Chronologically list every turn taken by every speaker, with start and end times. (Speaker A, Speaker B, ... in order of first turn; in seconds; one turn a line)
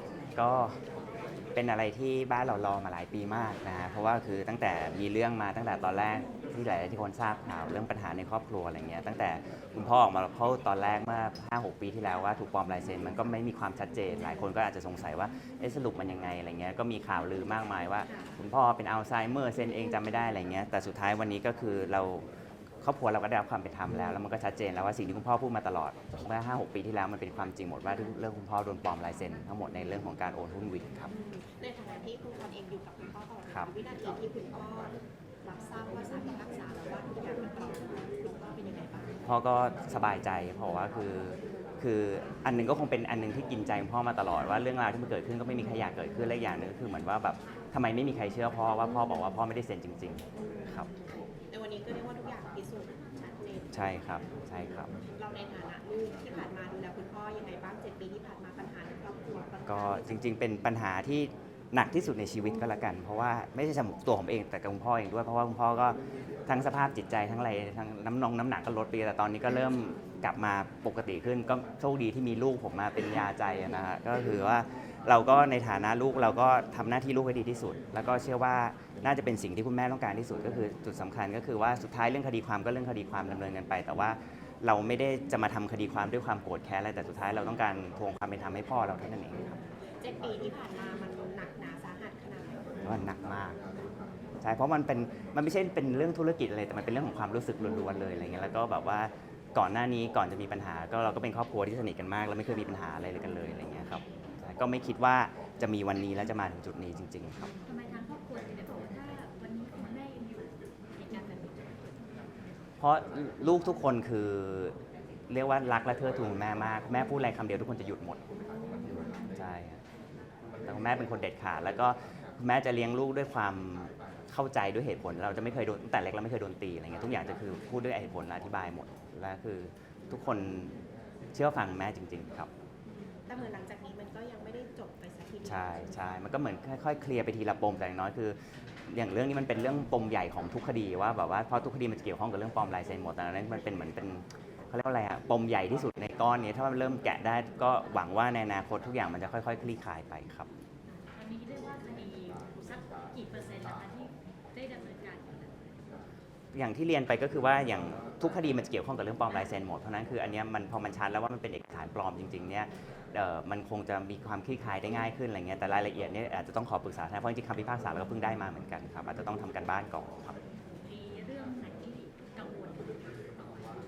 Speaker A: 0.3-0.8
Speaker A: 1.5-22.2
Speaker B: 18.1-18.4
Speaker A: 22.8-31.1
Speaker B: 31.1-39.3
Speaker A: 33.4-33.7
Speaker A: 39.2-50.9
Speaker B: 48.9-49.3
Speaker B: 50.4-54.2
Speaker A: 53.7-54.9
Speaker B: 55.1-60.2
Speaker A: 59.7-89.6
Speaker B: 90.0-92.8
Speaker A: 92.8-93.6
Speaker A: 94.4-107.5
Speaker C: 107.6-111.9
Speaker A: 112.8-114.8
Speaker A: 115.3-118.2
Speaker B: 118.5-119.1
Speaker A: 119.3-119.8
Speaker A: 120.6-130.8
Speaker A: 131.3-132.5
Speaker B: 133.1-136.0
Speaker A: 135.4-150.5
Speaker C: 151.0-155.6
Speaker A: 156.5-170.4
Speaker C: 170.7-173.7